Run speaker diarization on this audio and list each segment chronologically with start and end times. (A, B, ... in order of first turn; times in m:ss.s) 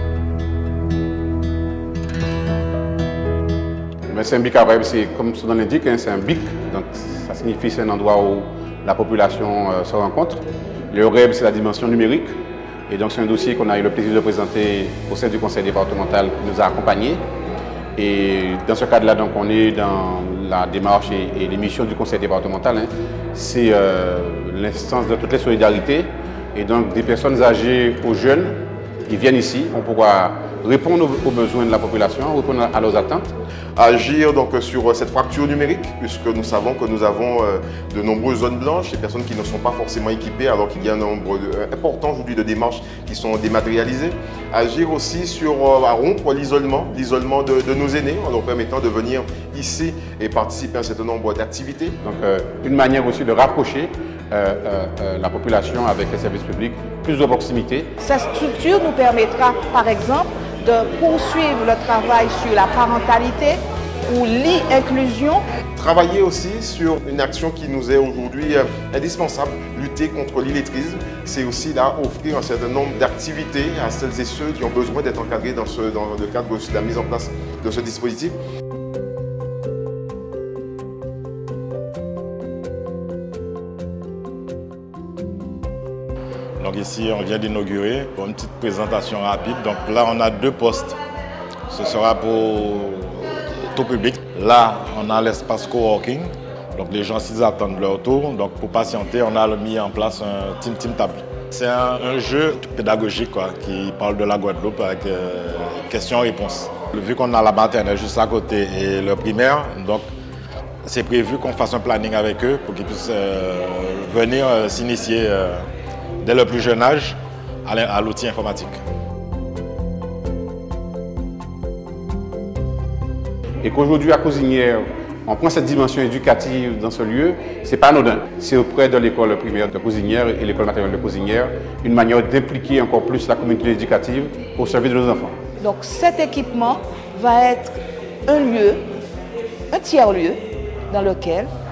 0:04.1-0:12.4 A
0:12.9-0:17.2 A
0:18.0-0:33.3 A
0:33.8-0:52.0 B
0:52.0-0:57.9 A
0:58.0-1:03.6 C
1:04.1-1:05.4 C
1:05.8-1:18.4 B
1:26.6-1:31.0 D
1:31.7-1:50.0 D
1:50.8-1:55.6 D
1:56.2-1:58.8 D
2:03.6-2:15.4 A
2:15.6-2:17.8 C
2:18.3-2:18.8 C
2:19.7-2:20.4 C
2:20.9-2:21.5 C